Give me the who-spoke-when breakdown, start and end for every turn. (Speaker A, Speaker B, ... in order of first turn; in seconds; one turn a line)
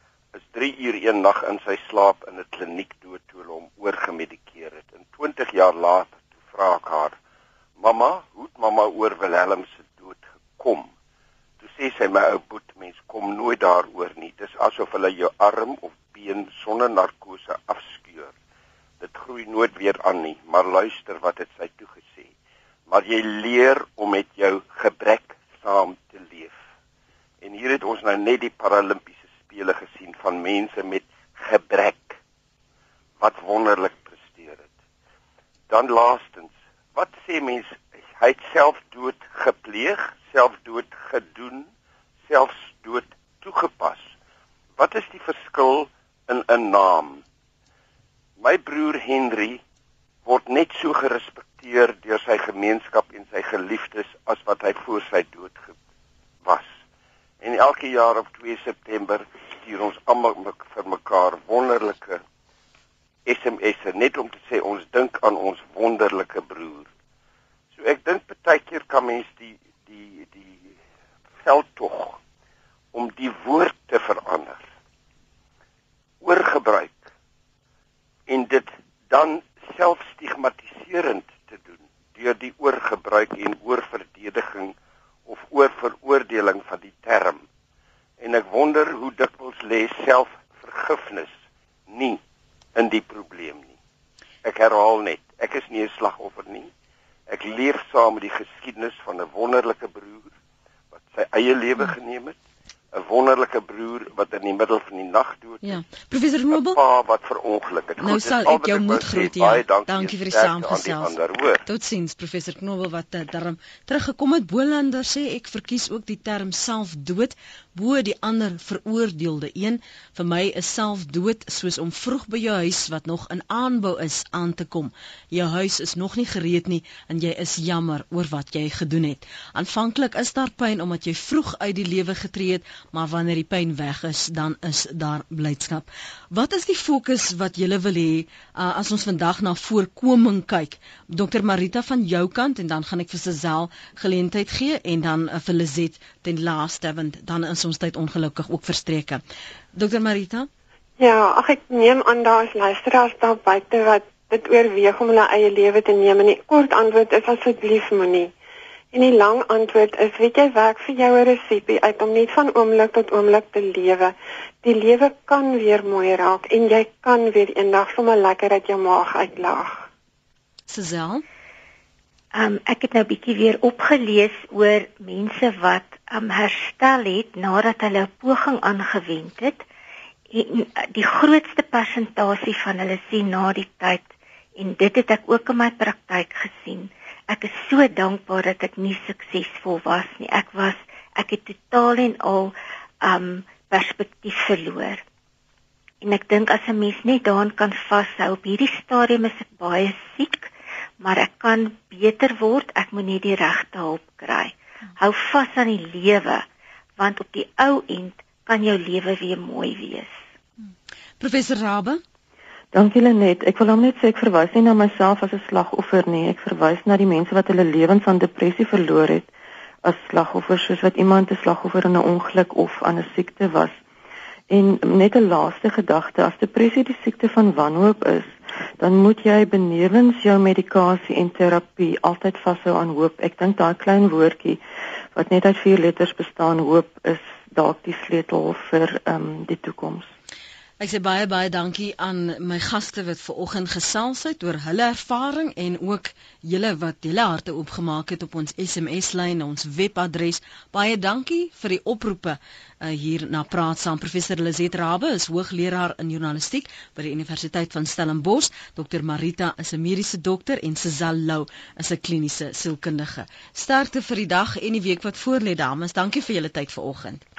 Speaker A: 0.4-7.1
Speaker A: 7.8-10.9
Speaker A: 11.6-18.3
Speaker A: 19.0-22.3
Speaker A: 22.9-26.6
Speaker A: 27.4-32.2
Speaker A: 33.2-34.7
Speaker A: 35.7-41.7
Speaker A: 42.3-44.0
Speaker A: 44.8-47.2
Speaker A: 48.4-49.6
Speaker A: 50.2-55.7
Speaker A: 56.4-56.7
Speaker A: 57.4-62.2
Speaker A: 63.2-66.9
Speaker A: 67.8-70.7
Speaker A: 71.4-72.2
Speaker A: 72.9-74.6
Speaker A: 76.2-77.0
Speaker A: 78.3-84.7
Speaker A: 85.2-87.4
Speaker A: 88.2-91.3
Speaker A: 91.9-92.2
Speaker A: 92.8-93.7
Speaker A: 94.4-96.7
Speaker A: 97.3-100.3
Speaker A: 100.9-102.3
Speaker A: 102.9-105.9
Speaker B: 105.6-106.8
Speaker A: 106.5-111.6
Speaker B: 108.0-149.2
Speaker B: 149.7-150.5
Speaker C: 151.0-158.3
Speaker C: 158.9-169.8
Speaker B: 170.7-171.2
Speaker D: 172.3-179.6
Speaker D: 180.3-184.0
Speaker D: 184.6-195.0
Speaker D: 196.0-206.4
Speaker D: 207.0-210.1
Speaker B: 211.2-212.0
Speaker E: 212.7-219.3
Speaker E: 219.8-223.7
Speaker E: 224.5-234.6
Speaker E: 235.1-240.1
Speaker B: 240.8-267.2